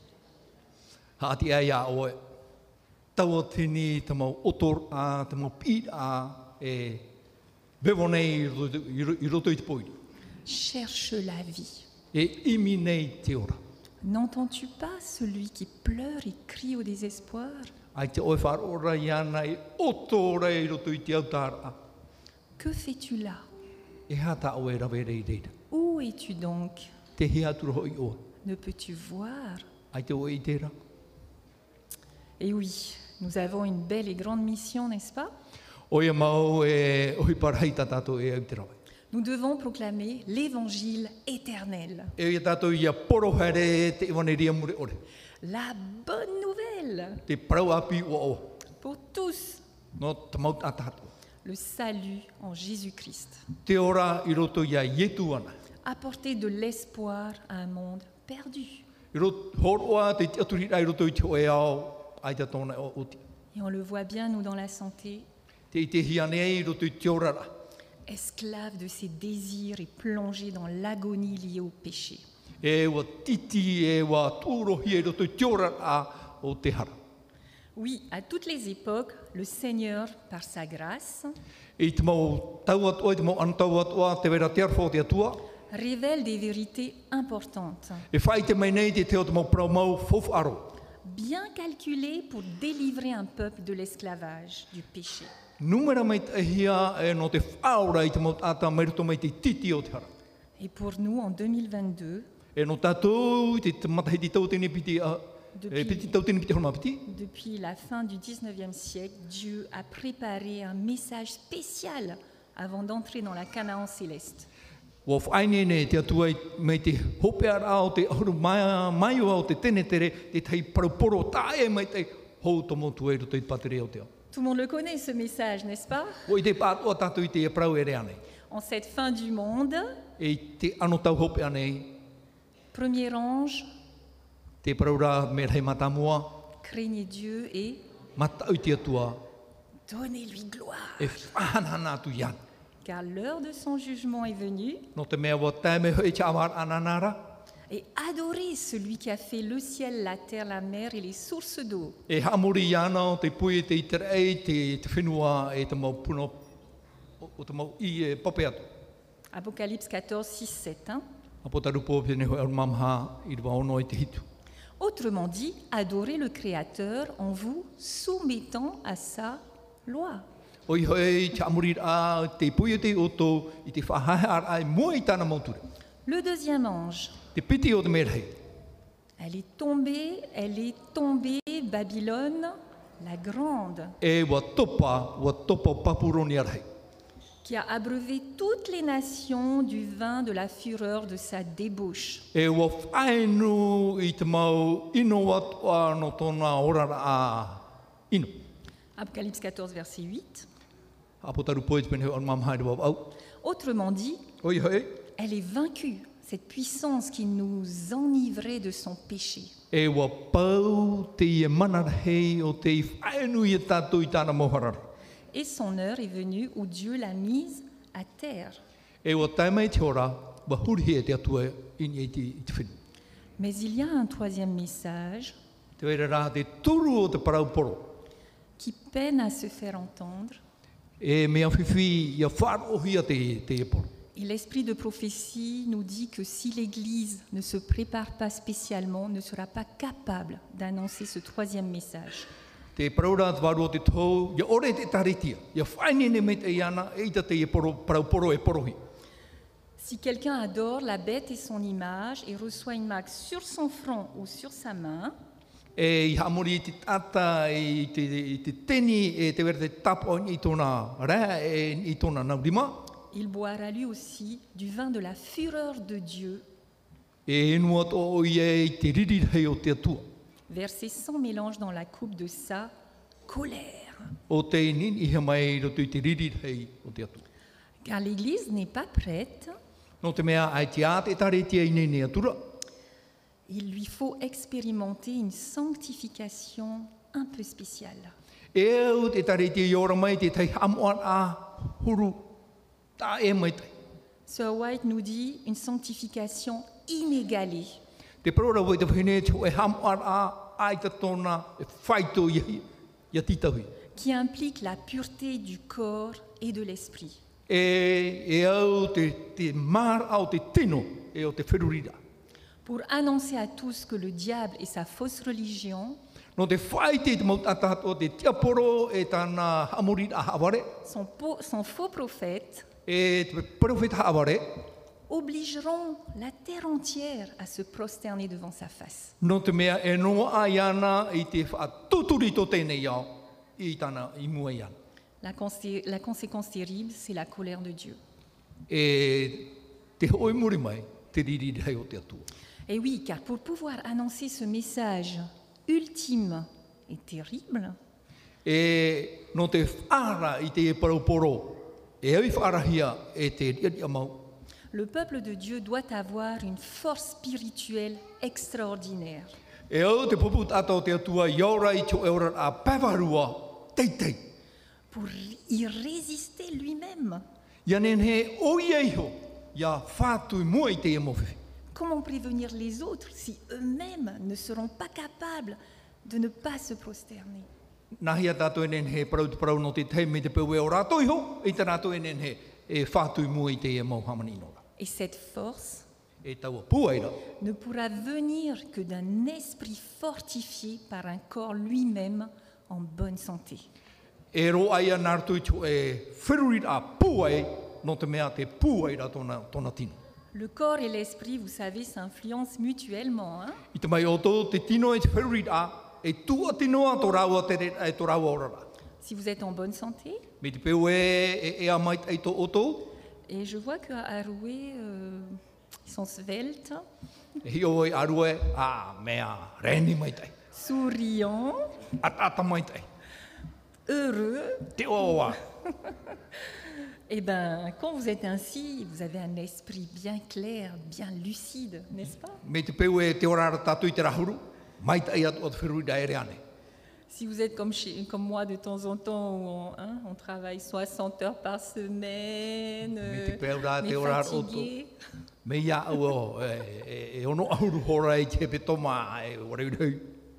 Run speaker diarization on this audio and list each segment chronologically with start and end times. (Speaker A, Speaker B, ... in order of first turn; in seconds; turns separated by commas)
Speaker A: 1.2-2.2, Speaker A: 3.1-7.1, Speaker A: 7.8-9.9, Speaker B: 10.4-11.9, Speaker A: 12.1-13.6, Speaker B: 14.0-17.7, Speaker A: 17.9-21.8, Speaker B: 22.6-23.5, Speaker A: 24.1-25.5, Speaker B: 25.7-26.9, Speaker A: 27.2-28.3, Speaker B: 28.4-29.7, Speaker A: 29.9-30.7, Speaker B: 32.4-35.3, Speaker A: 35.9-38.7, Speaker B: 39.1-42.1, Speaker A: 42.2-45.0, Speaker B: 45.4-47.2, Speaker A: 47.3-48.6, Speaker B: 48.7-49.6, Speaker A: 50.0-51.1, Speaker B: 51.4-53.5, Speaker A: 53.6-55.5, Speaker B: 55.8-58.9, Speaker A: 59.1-63.2, Speaker B: 63.5-65.2, Speaker A: 65.7-67.5, Speaker B: 68.1-72.2, Speaker A: 72.6-76.9, Speaker B: 77.8-81.3, Speaker A: 81.8-85.4, Speaker B: 85.7-88.0, Speaker A: 88.1-90.7, Speaker B: 91.0-95.3, Speaker A: 95.6-100.1, Speaker B: 100.6-102.3, Speaker A: 102.5-107.0, Speaker B: 105.5-106.2, Speaker B: 107.0-114.5, Speaker A: 115.0-124.1, Speaker B: 124.3-126.3, Speaker A: 126.3-128.2, Speaker B: 128.5-130.1, Speaker A: 130.2-132.0, Speaker B: 132.7-133.7, Speaker A: 134.6-136.4, Speaker B: 136.6-137.8, Speaker A: 138.2-139.2, Speaker B: 139.9-141.3, Speaker A: 141.0-142.4, Speaker B: 142.8-144.9, Speaker A: 144.9-147.3, Speaker B: 147.7-152.0, Speaker A: 152.1-156.4, Speaker A: 157.2-158.7, Speaker B: 159.3-161.0, Speaker A: 161.4-164.2, Speaker B: 164.8-170.2, Speaker A: 170.7-175.6, Speaker B: 176.0-177.2, Speaker A: 177.3-178.4, Speaker B: 179.2-184.0, Speaker A: 184.0-186.6, Speaker B: 187.4-192.3, Speaker A: 192.3-198.4, Speaker B: 199.0-200.5, Speaker A: 201.2-203.1, Speaker B: 203.4-204.3, Speaker A: 204.4-205.0, Speaker B: 205.2-209.6, Speaker A: 209.7-214.9, Speaker B: 215.3-218.6, Speaker A: 219.0-222.8, Speaker B: 223.4-225.4, Speaker A: 225.8-228.0, Speaker B: 228.6-230.4, Speaker A: 231.0-233.9, Speaker B: 234.1-242.3, Speaker A: 242.8-248.8, Speaker B: 249.8-255.1, Speaker A: 255.8-262.9, Speaker B: 263.1-266.4, Speaker A: 267.2-270.0, Speaker B: 270.5-272.7, Speaker B: 273.3-274.2, Speaker A: 274.3-277.2, Speaker B: 277.8-279.5, Speaker A: 280.0-282.4, Speaker B: 283.5-288.1, Speaker A: 288.5-292.3, Speaker A: 293.0-293.7, Speaker B: 294.3-297.8, Speaker A: 298.2-303.7, Speaker B: 303.9-307.2, Speaker A: 307.5-312.0, Speaker B: 312.6-316.0, Speaker A: 316.4-320.7, Speaker B: 320.8-322.7, Speaker A: 322.9-324.7, Speaker B: 325.1-329.1, Speaker A: 329.2-334.7, Speaker B: 335.2-338.0, Speaker A: 338.7-342.3, Speaker B: 342.7-347.8, Speaker A: 348.4-354.3, Speaker B: 354.7-359.3, Speaker A: 359.7-364.3, Speaker B: 364.9-367.2, Speaker A: 367.6-371.4, Speaker B: 371.7-377.5, Speaker A: 378.0-384.6, Speaker B: 384.8-385.9, Speaker A: 386.2-387.2, Speaker B: 387.4-393.7, Speaker A: 394.3-400.0, Speaker B: 400.3-403.6, Speaker A: 403.7-408.7, Speaker B: 409.0-410.3, Speaker A: 410.4-412.9, Speaker B: 413.3-416.8, Speaker A: 417.4-420.3, Speaker B: 420.5-421.7, Speaker A: 422.0-422.9, Speaker B: 423.9-432.4, Speaker A: 424.8-425.4, Speaker A: 432.4-436.4, Speaker B: 437.1-444.9, Speaker A: 443.0-444.7, Speaker A: 445.4-450.1